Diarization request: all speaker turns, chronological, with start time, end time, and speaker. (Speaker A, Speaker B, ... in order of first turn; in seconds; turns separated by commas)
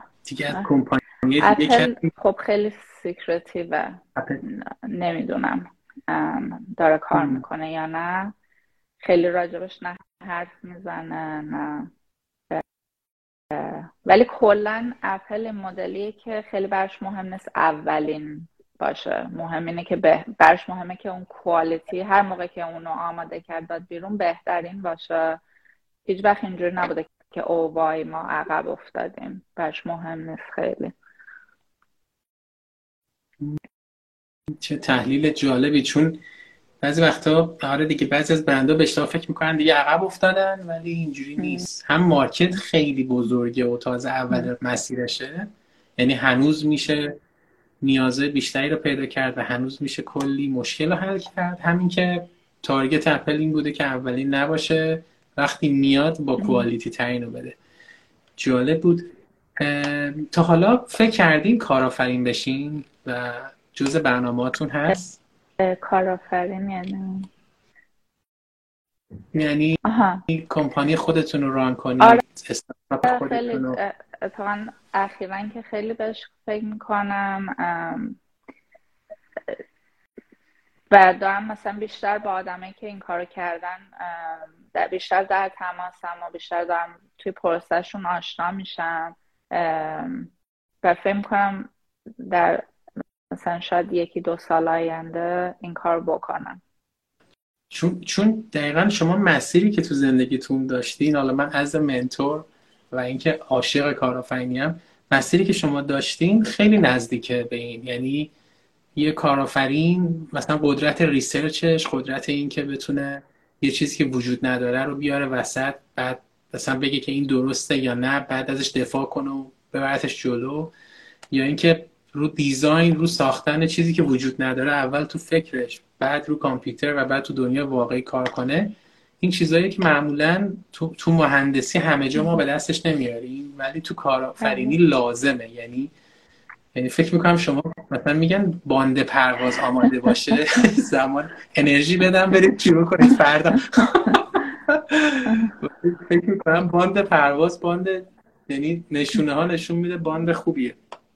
Speaker A: 0.3-2.1, Speaker B: 1.4-8.3, Speaker A: 4.2-4.4, Speaker A: 7.2-7.4, Speaker B: 9.0-11.9, Speaker B: 13.5-25.4, Speaker B: 26.1-30.9, Speaker A: 34.5-36.2, Speaker A: 36.8-47.2, Speaker B: 41.4-41.7, Speaker A: 47.8-57.6, Speaker B: 56.4-56.7, Speaker A: 58.4-65.2, Speaker B: 65.6-67.3, Speaker A: 69.3-73.8, Speaker B: 69.8-70.2, Speaker B: 73.0-78.2, Speaker B: 80.9-90.3, Speaker B: 90.8-92.7, Speaker B: 93.3-96.6, Speaker A: 97.7-108.3, Speaker A: 109.0-120.7, Speaker A: 121.3-135.9, Speaker B: 134.4-134.8, Speaker A: 136.7-150.8, Speaker B: 145.3-145.6